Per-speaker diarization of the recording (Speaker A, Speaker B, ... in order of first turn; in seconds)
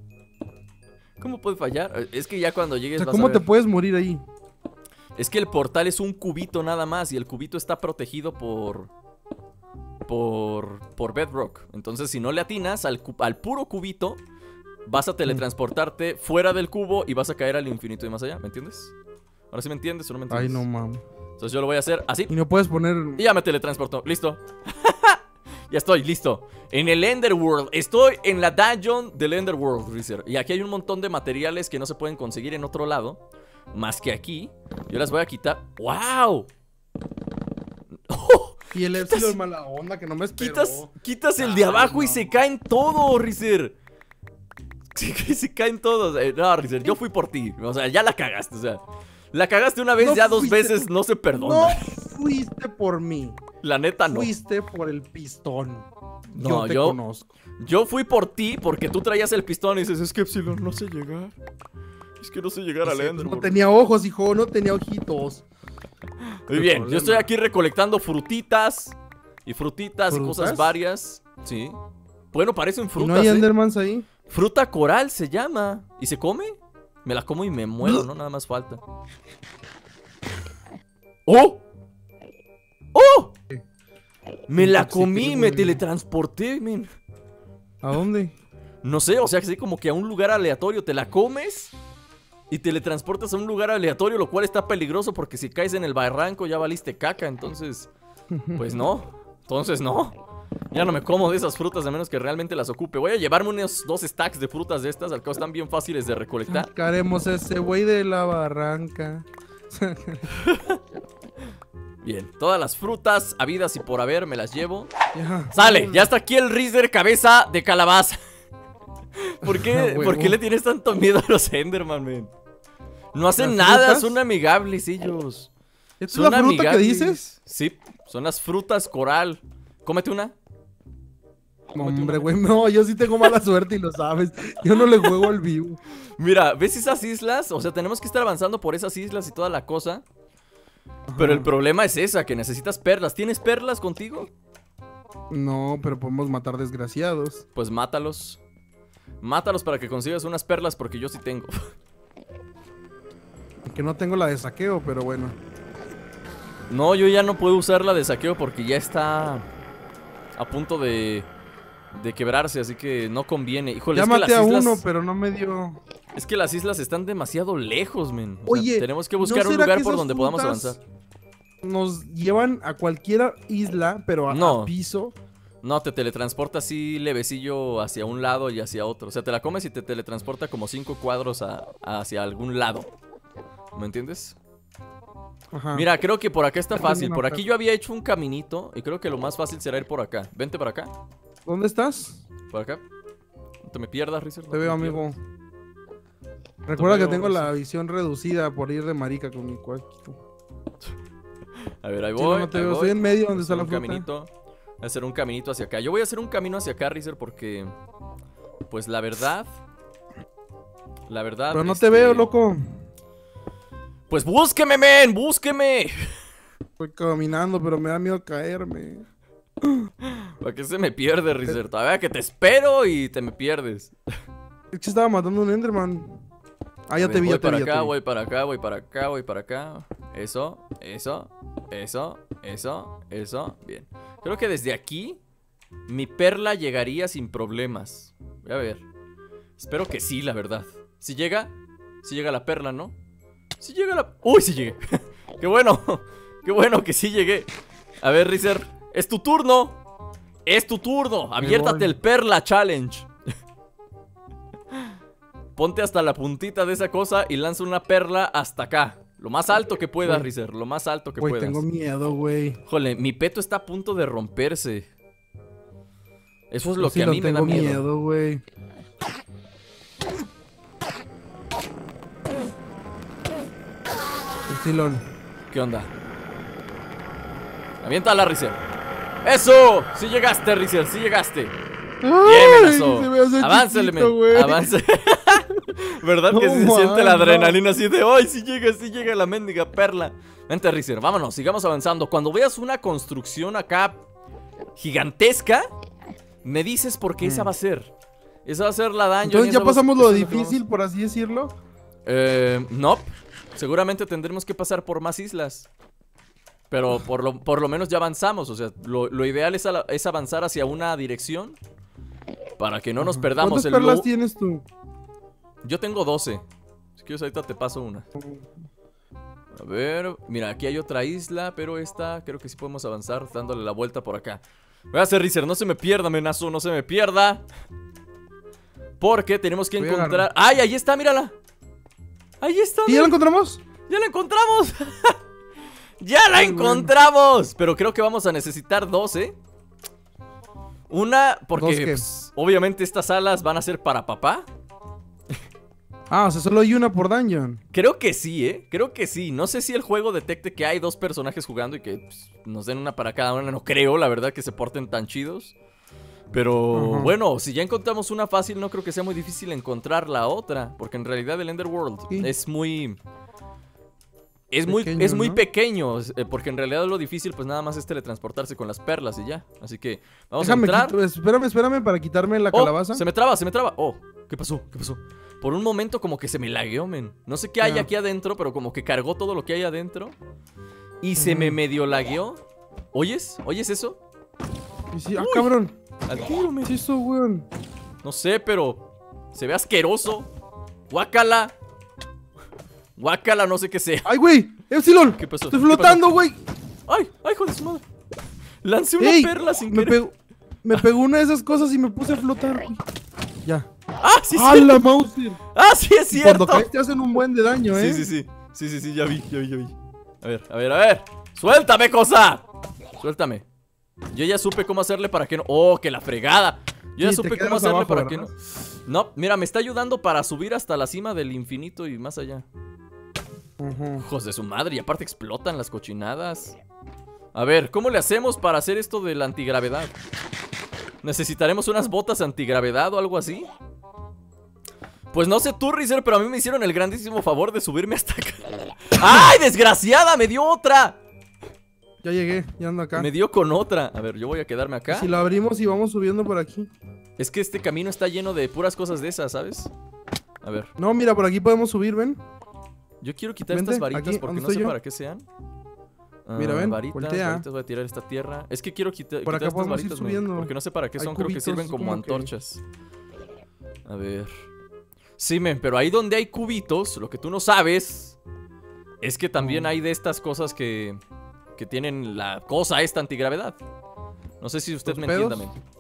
Speaker A: 1.2-3.4, 5.2-8.9, 10.1-14.2, 14.9-18.9, 19.5-20.6, 21.4-22.3, 23.2-36.5, 38.0-39.4, 40.3-43.8, 45.0-51.8, 53.6-54.3, 56.3-57.0, 57.6-61.4, 62.2-63.5, 66.5-71.8, 72.3-73.5, 74.3-78.8, 81.3-81.6, 82.9-83.3, 84.5-86.9, 88.8-91.7, 92.5-97.9, 98.6-100.2, 100.7-106.7, 110.4-110.8, 112.0-114.9, 115.5-118.2, 119.2-122.3, 123.1-125.5, 126.1-130.3, 131.8-132.3, 136.2-140.0, 141.2-144.3, 147.6-148.4, 149.2-151.7, 156.7-159.4, 160.3-161.3, 161.9-164.8, 166.1-170.8, 174.3-174.7, 175.6-182.9, 183.7-184.4, 185.7-190.9, 192.5-192.8, 193.6-195.1, 196.8-197.5, 201.8-207.7, 208.7-209.5, 211.1-212.3, 214.1-216.1, 220.1-223.9, 227.0-235.2, 235.9-238.8, 239.6-242.9, 243.6-247.5, 248.0-249.8, 250.5-253.1, 255.6-261.6, 262.7-264.9, 266.5-267.9, 275.5-275.9, 277.8-278.6, 279.2-281.6, 282.2-294.0, 294.8-295.7, 296.4-297.9, 298.4-300.6, 302.1-305.7, 306.7-311.6, 312.6-314.1, 315.6-316.4, 317.0-318.1, 319.6-327.4, 329.0-331.3, 332.4-333.2, 333.9-335.2, 336.0-339.4, 340.9-344.5, 347.7-355.6, 356.3-363.0, 364.5-371.0, 372.5-380.2, 381.0-382.4, 382.9-384.0, 385.2-385.6, 386.1-386.8, 388.0-390.3, 390.9-391.5, 393.0-394.1, 395.2-396.0, 396.9-397.8, 398.6-400.0, 404.0-404.8, 405.5-406.7, 407.7-412.4, 413.0-413.4, 414.1-422.5, 424.1-426.6, 427.3-429.9, 431.0-433.5, 435.1-441.0, 443.0-445.1, 447.2-449.7, 450.4-450.7, 453.0-455.3, 456.3-462.6, 463.9-464.3, 465.2-468.2, 469.0-471.0, 471.6-473.6, 474.4-475.6
Speaker B: 3.0-4.2, 20.3-21.0, 22.3-23.2, 38.7-42.3, 50.0-53.4, 54.1-57.3, 62.8-65.5, 66.5-67.3, 70.1-70.7, 73.0-74.1, 84.6-85.8, 87.8-88.3, 98.3-98.8, 106.5-110.3, 115.1-116.1, 119.4-120.4, 123.4-124.2, 126.0-127.3, 131.7-135.8, 141.1-141.5, 145.3-147.4, 153.7-155.4, 163.9-165.8, 168.5-170.8, 171.6-175.1, 185.5-185.9, 186.8-187.4, 191.5-192.2, 194.5-195.2, 196.7-200.2, 202.2-204.1, 211.5-212.8, 216.8-219.1, 219.6-219.9, 224.7-226.2, 226.9-227.9, 251.4-252.0, 261.2-262.6, 266.8-268.4, 274.5-275.0, 282.0-284.7, 286.3-287.6, 297.2-297.5, 299.2-301.5, 313.0-314.6, 318.2-318.5, 329.8-330.3, 332.9-333.6, 336.4-336.9, 341.6-342.1, 346.1-347.6, 356.7-357.1, 364.7-365.4, 370.4-373.0, 377.6-377.9, 381.2-381.6, 384.9-385.8, 386.6-387.5, 394.1-396.4, 399.0-400.1, 400.6-402.8, 404.3-405.4, 406.1-408.1, 417.0-418.3, 423.6-424.1, 442.0-443.1, 444.9-446.7, 450.8-452.2, 453.5-454.8, 456.4-457.4, 459.2-462.3, 469.4-469.7, 474.9-475.5